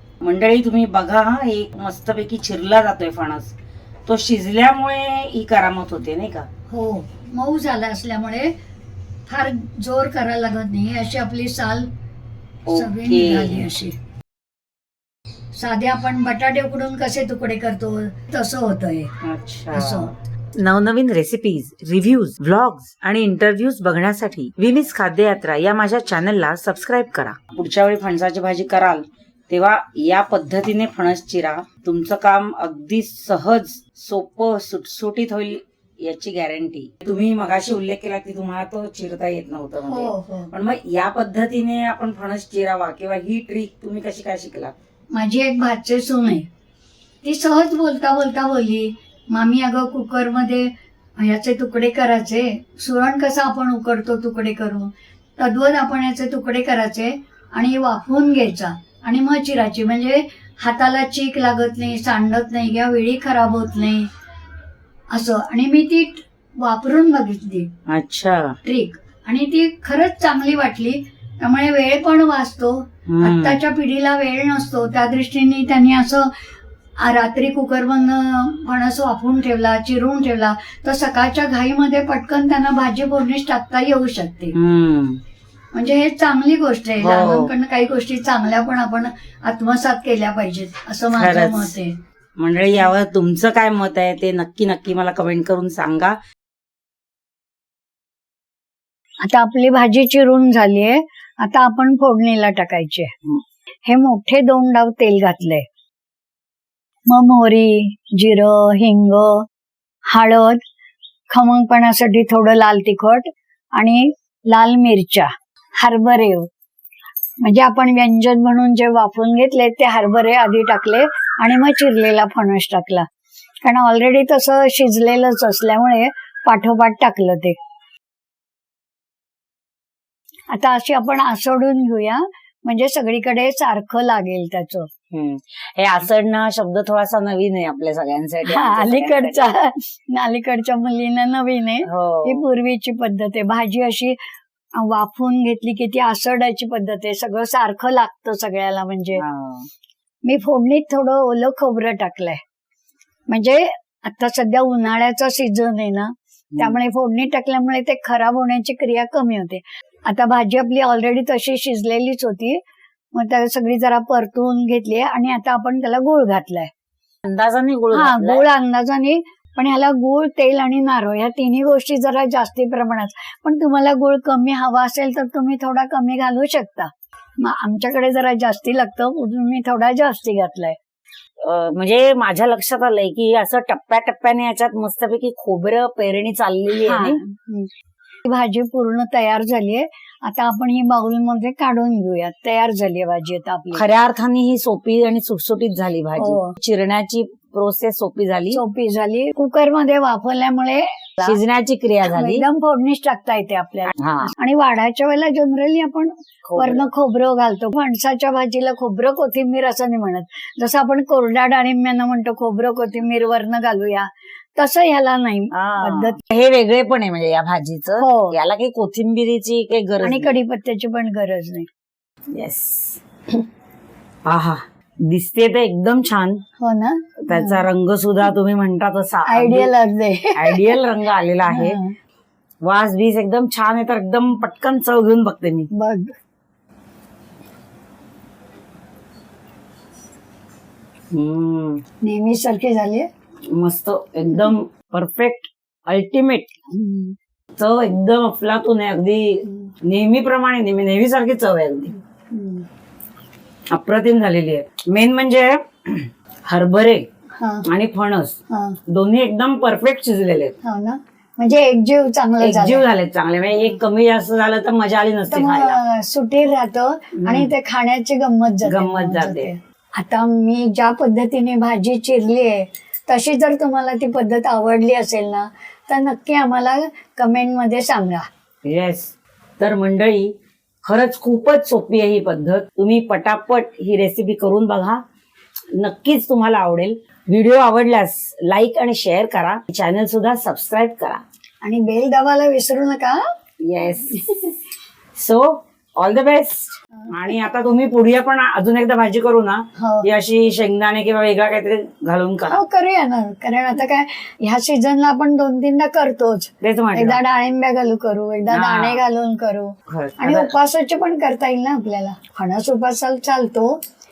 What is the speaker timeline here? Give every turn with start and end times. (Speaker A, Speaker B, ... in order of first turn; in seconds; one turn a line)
Speaker A: 0.2-6.5
Speaker B: 6.7-8.5
Speaker B: 9.3-11.9
Speaker A: 12.7-13.7
Speaker B: 12.7-14.0
Speaker B: 15.5-19.1
Speaker A: 19.2-44.8
Speaker B: 19.7-20.1
Speaker B: 39.8-40.5
Speaker B: 45.1-46.5
Speaker B: 47.2-64.1
Speaker B: 65.1-67.7
Speaker A: 67.9-68.6
Speaker B: 68.6-76.3
Speaker A: 73.1-73.6
Speaker B: 77.0-84.6
Speaker A: 84.5-85.2
Speaker B: 85.7-92.0
Speaker A: 87.0-87.5
Speaker A: 91.1-91.8
Speaker A: 92.4-96.2
Speaker B: 99.2-103.1
Speaker B: 103.9-105.7
Speaker B: 107.1-109.5
Speaker B: 110.1-110.6
Speaker B: 111.3-116.5
Speaker B: 117.4-123.1
Speaker B: 123.6-127.6
Speaker B: 130.5-134.9
Speaker A: 135.1-139.4
Speaker B: 138.5-144.2
Speaker A: 141.8-142.4
Speaker B: 144.8-149.2
Speaker A: 149.2-149.7
Speaker B: 150.2-152.4
Speaker B: 153.3-162.6
Speaker A: 156.5-156.8
Speaker B: 163.1-166.7
Speaker A: 167.2-168.4
Speaker B: 167.9-180.8
Speaker A: 181.4-187.2
Speaker B: 186.8-187.7
Speaker B: 188.2-193.8
Speaker A: 193.7-198.6
Speaker B: 196.2-196.6
Speaker B: 198.5-201.4
Speaker A: 201.2-202.4
Speaker B: 202.1-216.2
Speaker A: 204.0-204.3
Speaker A: 206.5-206.9
Speaker A: 215.5-220.3
Speaker B: 218.0-218.3
Speaker B: 220.0-221.7
Speaker A: 222.3-223.0
Speaker A: 224.2-226.4
Speaker B: 226.6-227.7
Speaker A: 227.2-229.7
Speaker B: 229.3-230.8
Speaker A: 230.3-231.8
Speaker B: 231.5-232.0
Speaker A: 232.6-235.7
Speaker B: 235.7-236.2
Speaker A: 241.1-241.8
Speaker B: 242.0-243.1
Speaker A: 243.5-246.5
Speaker B: 246.7-247.2
Speaker A: 247.6-251.9
Speaker B: 249.5-249.7
Speaker B: 252.3-252.7
Speaker A: 253.7-257.1
Speaker B: 257.4-257.7
Speaker A: 257.6-258.4
Speaker B: 258.5-258.8
Speaker A: 258.9-260.6
Speaker B: 260.6-262.9
Speaker A: 262.4-265.8
Speaker B: 265.3-278.3
Speaker A: 267.2-267.5
Speaker A: 268.6-269.5
Speaker A: 278.6-280.3
Speaker A: 280.9-285.0
Speaker A: 285.8-291.2
Speaker B: 291.6-293.2
Speaker A: 293.7-294.6
Speaker A: 295.1-302.6
Speaker B: 299.8-300.1
Speaker B: 302.5-313.8
Speaker A: 306.6-307.2
Speaker A: 308.5-309.0
Speaker A: 309.9-310.5